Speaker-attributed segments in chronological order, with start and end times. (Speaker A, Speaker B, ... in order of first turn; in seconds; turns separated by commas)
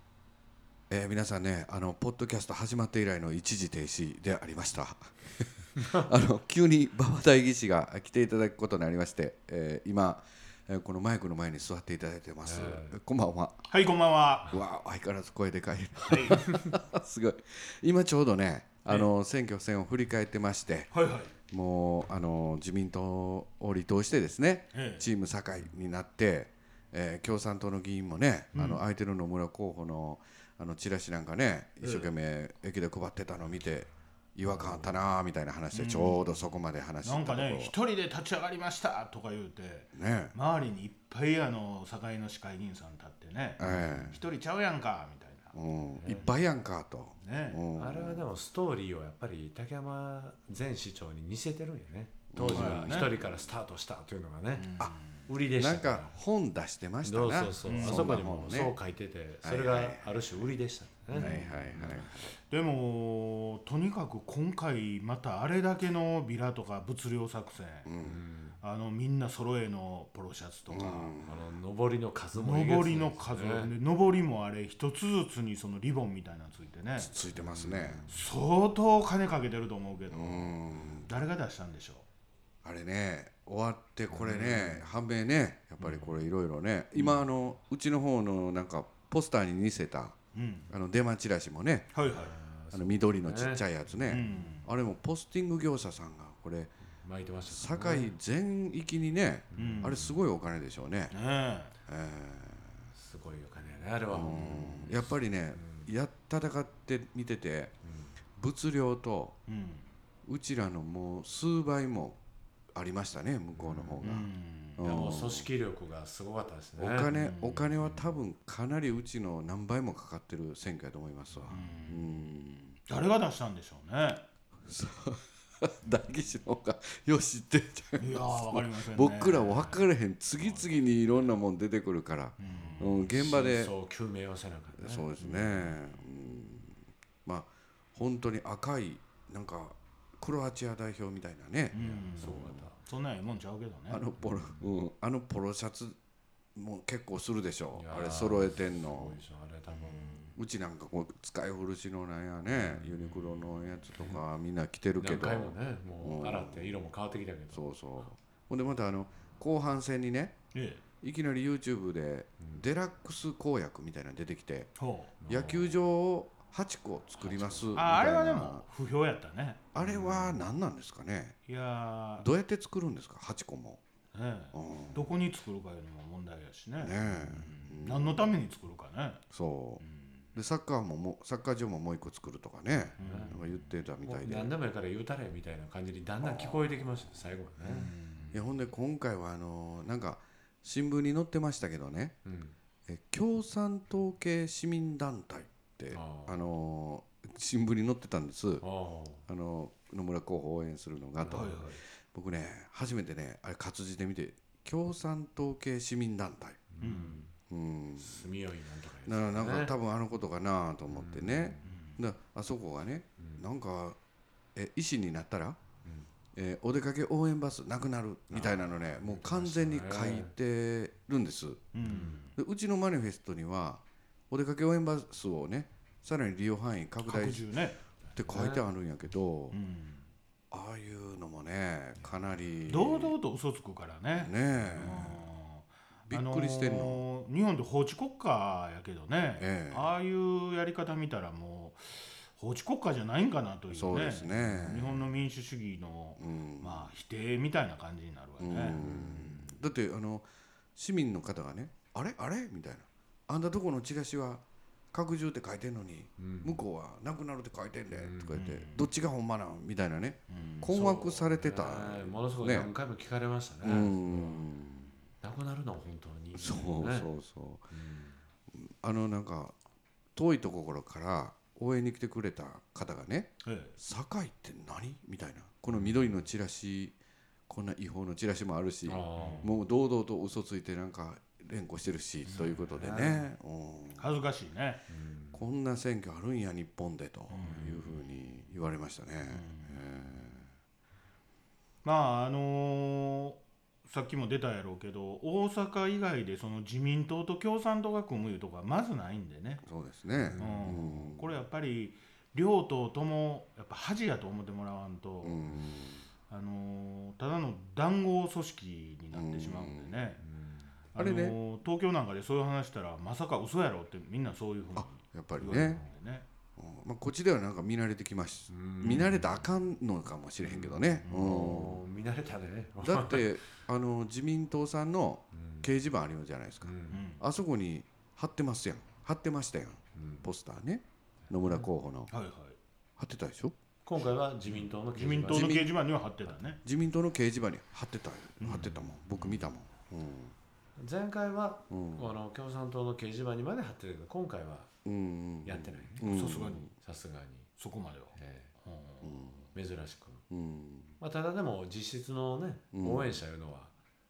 Speaker A: 0.9-13.6, Speaker B: 12.4-13.0, Speaker C: 13.7-14.5, Speaker A: 14.5-20.9, Speaker C: 16.1-16.4, Speaker C: 20.9-21.3, Speaker A: 21.5-37.7, Speaker C: 24.7-25.1, Speaker C: 28.5-28.8, Speaker C: 31.8-32.1, Speaker B: 34.5-35.0, Speaker C: 35.7-36.3, Speaker C: 37.0-46.3, Speaker A: 40.0-40.4, Speaker A: 43.6-44.2, Speaker B: 43.6-44.1, Speaker A: 45.5-48.3, Speaker C: 47.2-47.6, Speaker B: 47.8-54.7, Speaker A: 52.3-53.1, Speaker C: 52.5-53.1, Speaker C: 54.5-55.3, Speaker B: 55.3-56.1, Speaker A: 55.4-58.8, Speaker B: 57.0-62.1, Speaker C: 57.6-58.3, Speaker A: 59.4-60.2, Speaker C: 61.1-61.8, Speaker A: 61.1-62.3, Speaker C: 62.5-67.9, Speaker A: 67.8-68.2, Speaker B: 68.0-68.6, Speaker C: 68.6-71.2, Speaker A: 70.7-71.4, Speaker B: 71.2-73.7, Speaker C: 72.3-77.1, Speaker A: 77.0-78.1, Speaker B: 77.3-78.2, Speaker C: 78.1-82.1, Speaker A: 80.1-81.1, Speaker A: 82.6-90.2, Speaker B: 84.1-84.9, Speaker C: 85.8-86.1, Speaker C: 87.0-87.3, Speaker C: 90.3-90.7, Speaker A: 90.7-91.9, Speaker C: 91.9-92.3, Speaker B: 92.1-94.5, Speaker A: 92.7-96.7, Speaker C: 94.1-94.7, Speaker B: 97.0-98.2, Speaker A: 97.5-101.2, Speaker B: 99.5-100.2, Speaker C: 99.6-100.0, Speaker C: 101.1-101.8, Speaker A: 101.9-102.8, Speaker B: 102.9-105.9, Speaker A: 104.1-107.7, Speaker B: 107.8-108.2, Speaker A: 108.4-109.4, Speaker C: 109.5-109.9, Speaker A: 110.2-112.2, Speaker A: 112.7-115.5, Speaker B: 113.5-114.1, Speaker C: 114.0-115.3, Speaker B: 114.8-117.1, Speaker A: 116.8-122.8, Speaker C: 117.1-117.7, Speaker B: 117.8-118.2, Speaker B: 121.3-121.7, Speaker C: 121.5-122.1, Speaker C: 122.9-124.2, Speaker A: 124.7-133.7, Speaker C: 128.0-129.8, Speaker C: 130.4-130.7, Speaker C: 132.4-133.2, Speaker B: 133.1-135.8, Speaker A: 134.8-142.7, Speaker C: 135.2-135.5, Speaker C: 141.7-144.1, Speaker B: 141.7-142.8, Speaker A: 143.9-146.0, Speaker B: 144.2-144.7, Speaker A: 146.6-156.8, Speaker B: 147.7-150.4, Speaker B: 152.5-154.2, Speaker B: 155.0-157.6, Speaker A: 157.5-160.4, Speaker C: 160.5-160.8, Speaker A: 161.0-164.7, Speaker C: 164.8-165.1, Speaker B: 165.2-165.8, Speaker A: 165.3-168.6, Speaker B: 167.2-167.7, Speaker C: 167.8-169.8, Speaker A: 169.7-171.4, Speaker B: 169.8-170.4, Speaker C: 171.5-172.3, Speaker A: 172.2-173.8, Speaker C: 174.1-179.2, Speaker A: 174.5-175.2, Speaker A: 176.8-178.4, Speaker A: 179.3-179.8, Speaker C: 179.8-180.2, Speaker A: 180.3-184.5, Speaker B: 183.0-183.3, Speaker C: 183.0-183.5, Speaker B: 184.0-187.9, Speaker A: 186.2-187.0, Speaker C: 187.6-188.5, Speaker A: 188.3-192.2, Speaker B: 192.2-192.6, Speaker A: 192.9-198.7, Speaker B: 195.9-196.4, Speaker B: 198.6-199.3, Speaker A: 199.3-206.7, Speaker B: 201.2-201.6, Speaker C: 201.3-201.8, Speaker B: 206.7-207.3, Speaker C: 206.8-207.2, Speaker A: 207.5-208.3, Speaker B: 208.0-209.7, Speaker A: 209.1-214.0, Speaker B: 210.9-211.7, Speaker C: 211.6-212.0, Speaker B: 213.2-213.4, Speaker A: 214.6-215.6, Speaker B: 215.8-216.1, Speaker A: 216.3-221.8, Speaker B: 218.3-220.3, Speaker C: 221.7-222.4, Speaker B: 221.8-222.2, Speaker A: 222.4-227.5, Speaker C: 227.0-227.8, Speaker A: 228.1-229.6, Speaker B: 228.3-228.7, Speaker C: 229.5-230.1, Speaker A: 230.5-233.2, Speaker C: 232.7-249.6, Speaker A: 234.1-235.2, Speaker A: 236.1-237.0, Speaker A: 239.4-239.9, Speaker A: 243.7-245.0, Speaker B: 244.4-244.8, Speaker A: 246.2-246.9, Speaker A: 248.4-262.7, Speaker B: 256.2-256.6, Speaker B: 257.9-258.4, Speaker C: 258.3-258.9, Speaker C: 260.3-260.7, Speaker B: 260.6-264.3, Speaker A: 263.6-264.9, Speaker B: 265.2-267.1, Speaker A: 266.4-267.7, Speaker B: 267.7-268.2, Speaker A: 268.5-269.6, Speaker A: 270.2-277.0, Speaker C: 273.4-273.8, Speaker B: 275.7-276.3, Speaker A: 277.5-284.1, Speaker B: 278.9-279.6, Speaker C: 279.2-279.5, Speaker C: 282.3-282.9, Speaker B: 282.7-283.3, Speaker C: 284.0-284.8, Speaker B: 284.9-285.5, Speaker A: 285.3-290.5, Speaker C: 287.3-287.9, Speaker C: 289.3-289.9, Speaker C: 291.8-299.6, Speaker A: 299.6-301.3, Speaker B: 300.2-300.8, Speaker C: 300.4-305.5, Speaker A: 305.2-306.0, Speaker C: 306.3-310.2, Speaker A: 309.1-309.9, Speaker B: 310.2-310.7, Speaker C: 310.9-316.3, Speaker A: 311.0-311.4, Speaker A: 314.8-315.8, Speaker A: 316.6-321.8, Speaker B: 318.5-319.5, Speaker B: 320.4-323.4, Speaker C: 321.1-321.4, Speaker A: 322.8-332.1, Speaker B: 325.3-325.7, Speaker B: 326.6-327.1, Speaker C: 326.9-327.2, Speaker B: 329.9-330.3, Speaker C: 332.1-332.6, Speaker A: 333.0-333.5, Speaker B: 333.9-335.6, Speaker C: 334.9-336.6, Speaker A: 335.3-335.7, Speaker A: 336.6-340.4, Speaker C: 338.4-338.8, Speaker B: 338.5-339.4, Speaker B: 340.8-344.7, Speaker A: 341.7-342.2, Speaker A: 344.9-346.7, Speaker B: 345.4-346.0, Speaker C: 346.0-346.7, Speaker B: 346.8-347.5, Speaker C: 347.6-349.4, Speaker B: 348.2-348.5, Speaker A: 349.0-349.4, Speaker B: 349.5-350.2, Speaker A: 350.3-351.0, Speaker B: 351.0-353.7, Speaker A: 352.7-353.2